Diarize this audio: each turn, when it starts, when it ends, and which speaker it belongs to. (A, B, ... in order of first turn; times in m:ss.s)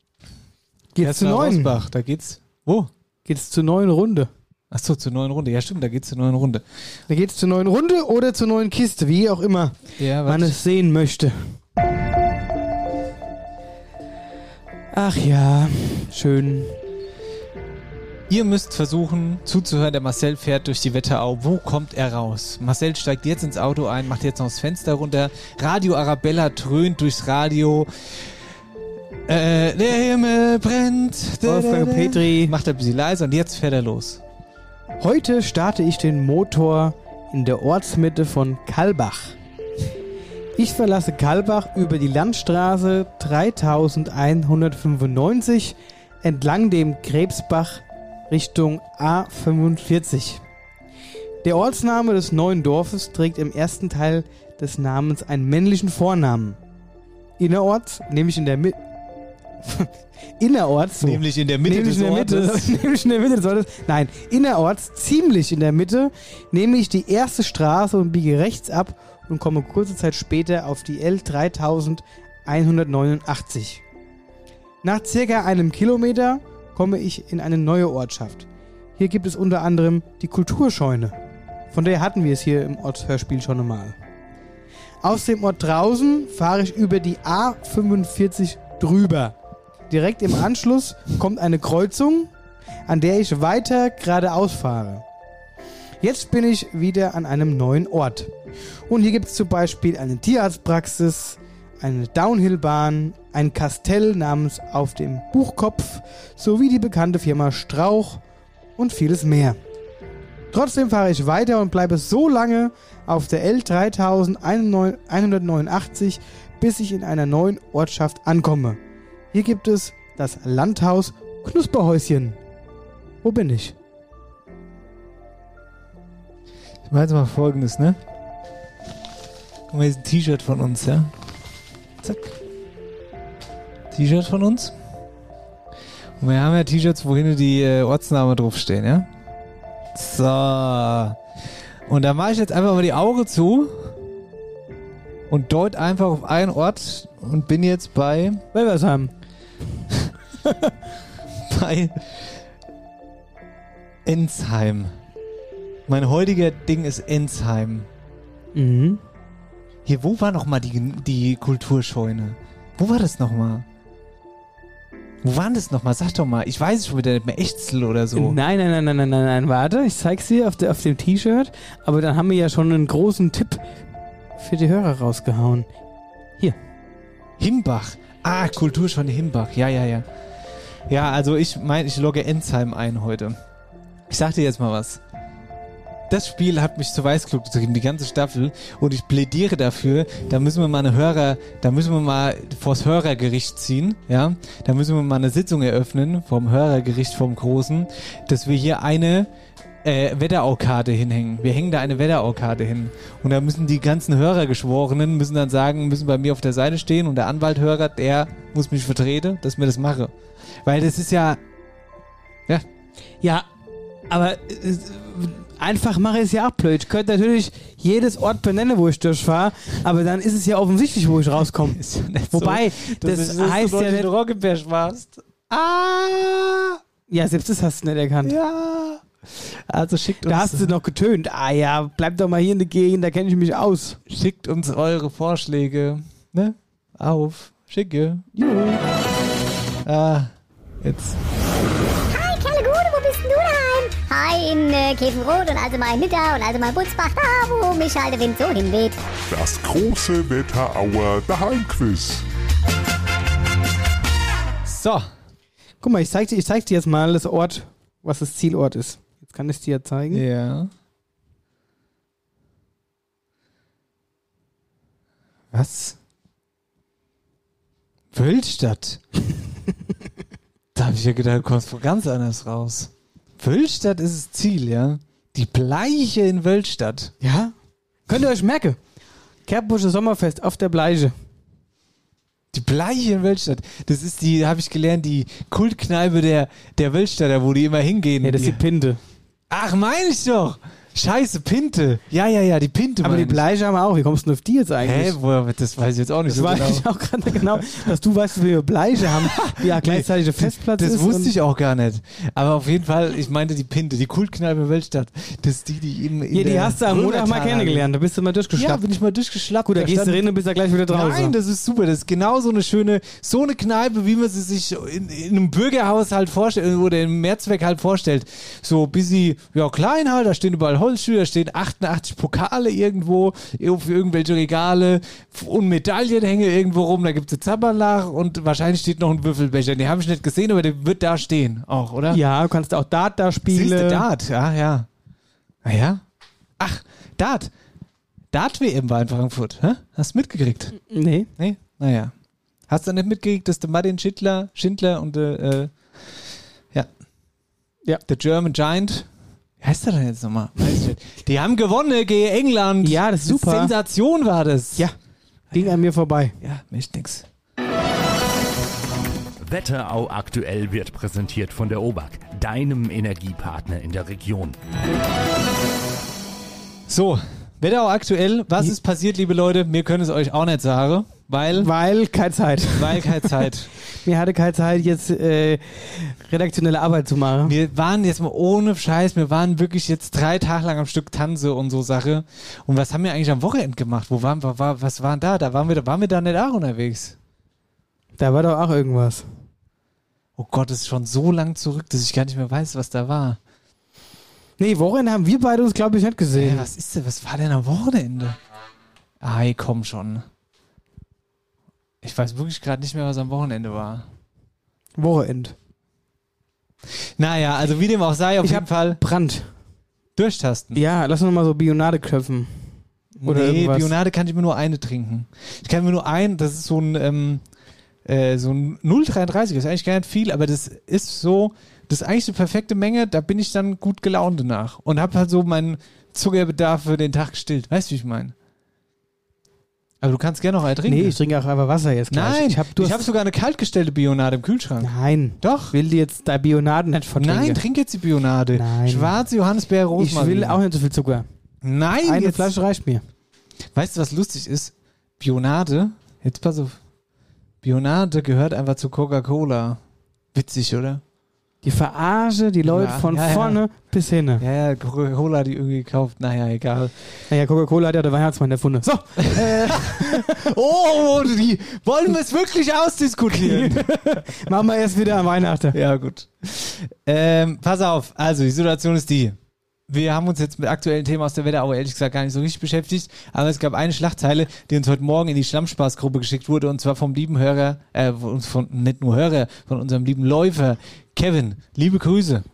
0:00.9-0:01.8 A
0:01.0-0:02.9 B
0:03.2-0:04.3 A
0:04.7-0:06.6 B
0:07.1-0:11.6 A
0:10.0-0:10.6 B
0:14.9-0:16.8 A
0:18.3-0:27.9 B
0:29.3-0:34.2 B
0:31.4-0:32.5 A
0:35.0-0:39.4 A
0:40.6-0:50.4 A
0:51.4-0:56.6 A
0:57.4-0:58.8 A
0:59.6-1:13.8 A
1:01.0-1:02.8 B
1:14.8-1:18.4 A
1:19.0-1:21.1 A
1:21.7-1:24.0 A
1:25.0-1:29.4 A
1:29.9-1:32.3 A
1:32.9-1:35.0 A
1:36.0-1:38.3 A
1:38.9-1:48.2 A
1:48.8-1:49.6 A
1:50.5-1:58.8 A
1:59.3-2:02.4 A
2:03.2-2:03.7 A
2:06.9-2:08.0 B
2:09.7-2:11.1 B
2:12.0-2:12.3 B
2:13.9-2:14.7 B
2:16.2-2:19.1 B
2:19.9-2:21.2 B
2:21.9-2:23.7 B
2:25.3-2:28.4 B
2:28.5-2:29.1 A
2:31.5-2:32.3 B
2:34.0-2:34.9 B
2:35.9-2:37.9 B
2:38.5-2:39.0 A
2:39.9-2:43.6 B
2:45.2-2:48.4 B
2:48.1-2:53.6 A
2:54.4-2:55.7 A
2:57.4-3:00.0 B
3:00.9-3:03.4 B
3:04.1-3:05.0 B
3:06.1-3:19.3 B
3:19.8-3:30.1 B
3:30.6-3:31.4 B
3:34.1-3:41.8 A
3:41.7-3:46.8 B
3:42.3-3:44.1 A
3:47.1-3:48.4 A
3:48.2-3:50.7 B
3:50.3-3:54.0 A
3:54.1-3:58.2 B
3:58.4-3:58.8 A
3:59.8-4:00.3 B
4:00.8-4:01.2 B
4:02.1-4:09.0 C
4:09.3-4:12.2 D
4:14.6-4:15.1 B
4:15.8-4:20.2 A
4:20.1-4:20.7 B
4:25.5-4:26.0 B
4:28.1-4:29.0 B
4:30.7-4:37.1 B
4:37.2-4:37.5 A
4:38.1-4:38.8 A
4:39.5-4:41.1 A
4:42.5-4:48.6 B
4:48.2-4:49.0 A
4:49.5-4:53.4 B
4:53.0-4:55.2 A
4:54.8-4:56.8 B
4:56.3-5:01.3 A
4:59.0-5:07.9 B
5:06.3-5:08.8 A
5:08.6-5:10.3 B
5:09.6-5:11.3 A
5:10.9-5:32.2 B
5:32.1-5:34.0 A
5:33.5-5:34.9 B
5:35.6-5:36.0 B
5:36.6-5:37.5 B
5:38.3-5:40.8 B
5:40.9-5:41.3 A
5:41.4-5:42.1 B
5:42.7-5:45.7 B
5:48.1-5:49.1 B
5:49.6-5:54.9 B
5:52.8-5:53.7 A
5:55.5-5:56.3 A
5:56.4-5:57.2 B
5:59.4-6:04.6 E
6:06.9-6:11.7 B
6:11.6-6:13.3 A
6:12.8-6:13.7 B
6:13.9-6:17.6 A
6:17.4-6:27.2 B
6:28.2-6:29.3 A
6:30.4-6:33.4 B
6:34.6-6:36.7 A
6:36.3-6:38.4 B
6:39.2-6:40.2 B
6:42.0-6:44.0 B
6:45.0-6:45.6 A
6:47.2-6:49.0 B
6:48.4-6:49.5 A
6:50.2-6:50.8 B
6:50.7-6:52.7 A
6:53.2-6:57.4 B
6:53.2-6:53.9 A
6:58.0-7:08.3 B
7:10.0-7:11.2 B
7:10.9-7:13.1 A
7:12.1-7:15.7 B
7:14.8-7:17.6 A
7:17.2-7:20.6 B
7:18.6-7:19.2 A
7:20.0-7:21.3 A
7:21.6-7:22.5 B
7:22.0-7:23.0 A
7:23.7-7:26.8 B
7:27.6-7:29.8 B
7:30.3-7:31.0 B
7:31.6-7:34.4 A
7:32.6-7:33.6 B
7:34.4-7:36.9 B
7:37.3-7:40.4 A
7:39.2-7:44.1 B
7:43.3-7:45.8 A
7:45.7-7:49.4 B
7:49.9-8:02.4 B